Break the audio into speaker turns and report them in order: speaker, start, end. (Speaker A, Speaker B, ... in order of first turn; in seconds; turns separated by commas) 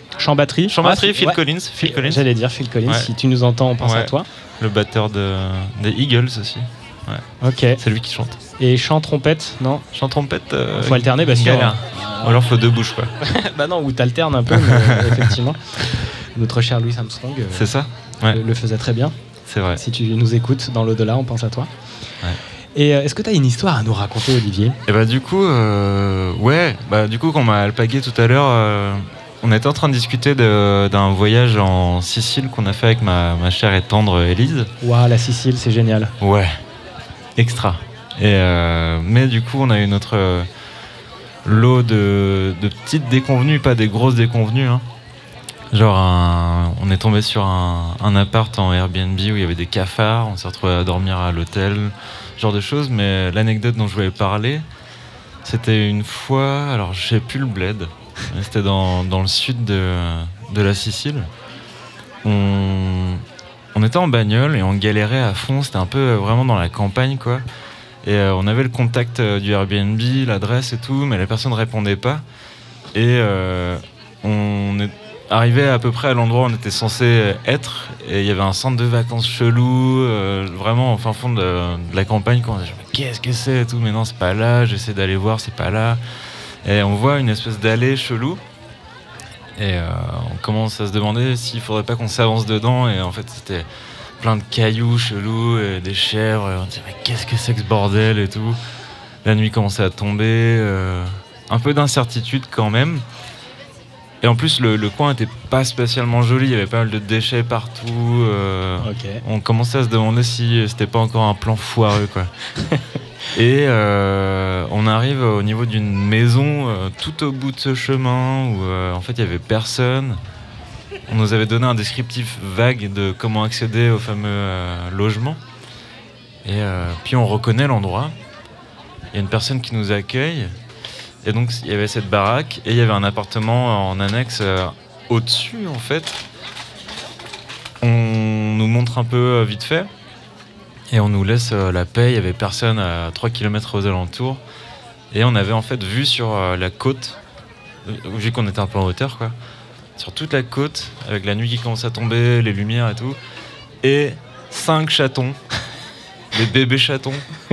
Speaker A: 0.1-4.3, Speaker B: 0.7-2.2, Speaker B: 2.9-3.1, Speaker B: 3.8-7.2, Speaker A: 7.4-7.8, Speaker B: 7.8-8.4, Speaker A: 8.6-9.8, Speaker B: 9.9-13.1, Speaker A: 10.8-12.3, Speaker A: 13.2-17.7, Speaker B: 14.5-15.4, Speaker B: 17.5-18.4, Speaker A: 18.3-19.1, Speaker B: 19.5-19.8, Speaker A: 19.8-21.7, Speaker A: 22.8-24.8, Speaker B: 24.9-34.7, Speaker A: 34.8-36.1, Speaker B: 36.2-36.5, Speaker B: 37.4-40.5, Speaker B: 41.5-44.8, Speaker B: 45.7-54.6, Speaker B: 55.5-61.3, Speaker B: 62.2-63.2, Speaker B: 63.8-67.4, Speaker B: 68.0-72.2, Speaker B: 72.9-86.0, Speaker B: 86.7-88.4, Speaker B: 89.6-93.7, Speaker B: 94.2-98.6, Speaker B: 99.2-103.0, Speaker B: 104.2-112.3, Speaker A: 108.8-109.2, Speaker B: 113.3-120.2, Speaker B: 121.1-125.4, Speaker B: 126.5-128.2, Speaker B: 129.1-130.5, Speaker B: 131.2-136.2, Speaker B: 137.8-139.9, Speaker B: 140.9-144.4, Speaker B: 145.1-147.2, Speaker B: 147.8-149.3, Speaker B: 150.0-153.2, Speaker B: 153.8-155.4, Speaker B: 156.3-157.2